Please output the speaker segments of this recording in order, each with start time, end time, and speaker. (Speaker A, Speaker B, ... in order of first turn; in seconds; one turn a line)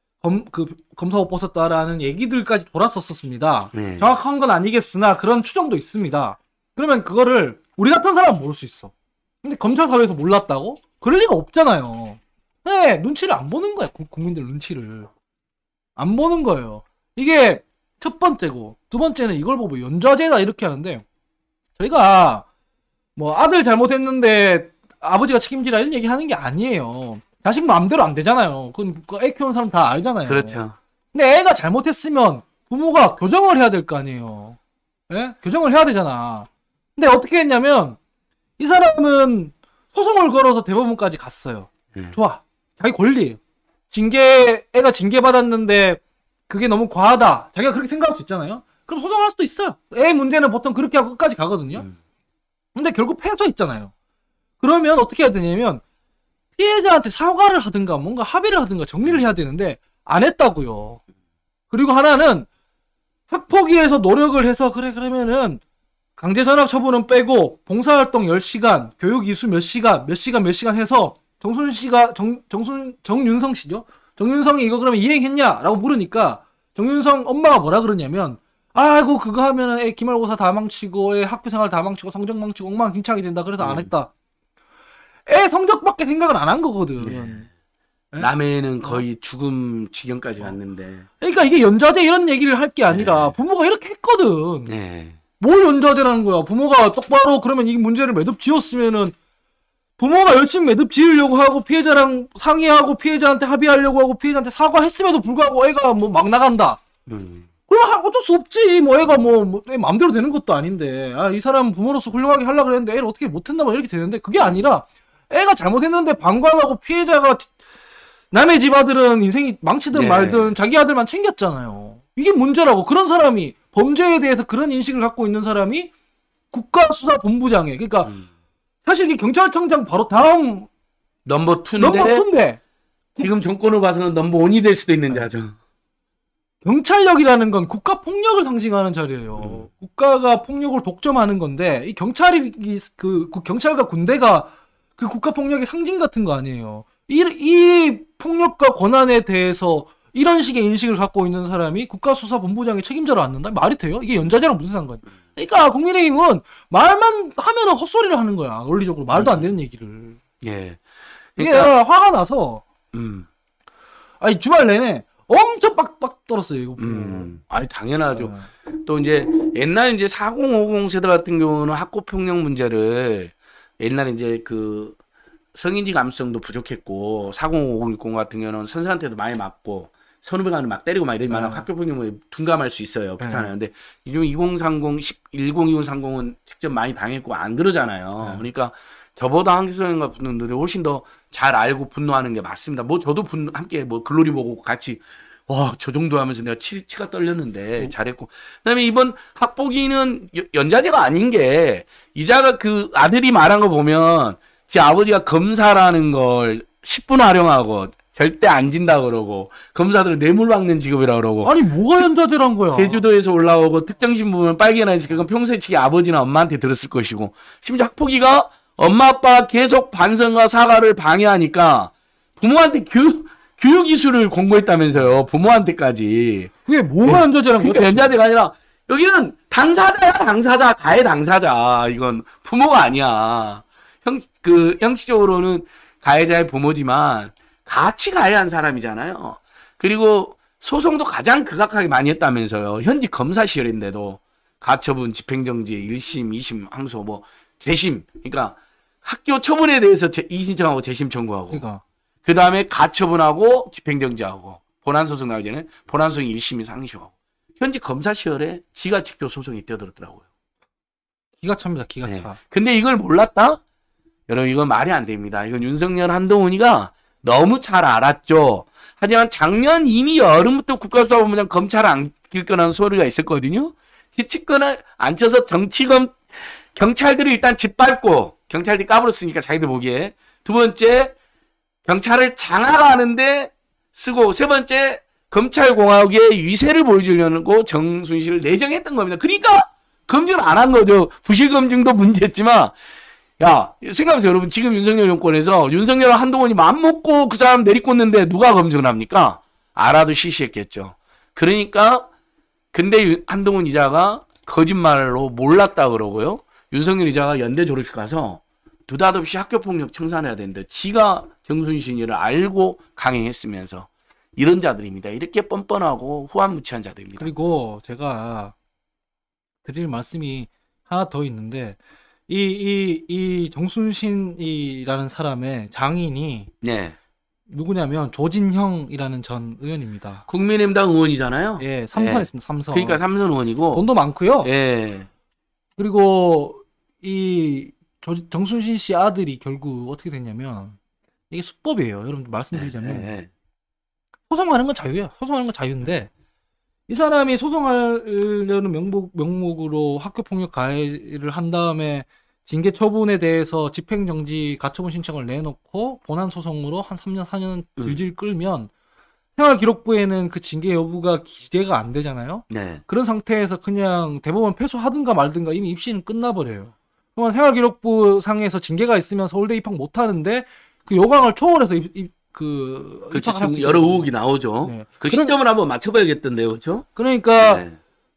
Speaker A: 0.2-8.9
Speaker B: 3.7-4.1
Speaker A: 9.4-15.1
Speaker A: 16.0-21.0
Speaker A: 21.8-22.4
Speaker A: 23.1-30.6
Speaker B: 30.2-30.8
Speaker A: 31.1-34.6
Speaker A: 35.1-38.0
Speaker A: 38.6-43.4
Speaker A: 43.9-51.9
Speaker A: 52.7-53.9
Speaker A: 54.6-55.8
Speaker A: 56.6-61.0
Speaker A: 61.7-62.5
Speaker A: 63.3-65.6
Speaker A: 66.2-84.1
Speaker B: 83.6-83.9
Speaker A: 85.3-87.5
Speaker B: 87.0-87.5
Speaker B: 88.2-91.1
Speaker A: 91.2-94.7
Speaker B: 92.9-93.3
Speaker B: 94.7-95.2
Speaker A: 95.4-99.1
Speaker A: 100.0-106.8
Speaker B: 107.1-107.5
Speaker A: 107.7-117.5
Speaker A: 118.3-125.9
Speaker B: 119.9-120.5
Speaker A: 126.5-128.1
Speaker A: 128.8-130.7
Speaker B: 131.2-132.2
Speaker A: 131.8-132.6
Speaker B: 133.2-135.6
Speaker A: 136.6-160.2
Speaker B: 159.1-159.5
Speaker B: 160.4-160.8
Speaker B: 161.4-161.7
Speaker A: 161.4-162.6
Speaker B: 162.9-163.3
Speaker A: 164.2-167.3
Speaker B: 166.8-175.0
Speaker A: 168.1-168.5
Speaker B: 175.5-211.5
Speaker A: 181.3-181.7
Speaker A: 183.2-183.5
Speaker A: 188.2-188.4
Speaker A: 211.4-213.0
Speaker B: 212.7-226.5
Speaker A: 226.7-228.1
Speaker B: 227.0-251.6
Speaker A: 251.5-251.8
Speaker B: 252.2-260.2
Speaker A: 261.4-262.4
Speaker B: 262.1-263.6
Speaker B: 264.3-281.1
Speaker B: 281.9-292.7
Speaker B: 293.4-302.1
Speaker B: 302.7-317.3
Speaker A: 317.2-318.5
Speaker A: 319.6-326.5
Speaker B: 326.6-326.9
Speaker A: 327.5-330.2
Speaker B: 330.3-333.9
Speaker A: 331.6-333.0
Speaker A: 333.7-334.5
Speaker B: 334.4-335.1
Speaker A: 335.8-340.8
Speaker A: 341.3-343.1
Speaker B: 342.5-343.3
Speaker A: 344.3-346.1
Speaker A: 346.9-358.7
Speaker A: 359.4-374.1
Speaker B: 362.5-362.8
Speaker B: 373.1-376.9
Speaker A: 374.6-375.3
Speaker A: 376.9-377.6
Speaker B: 377.4-377.8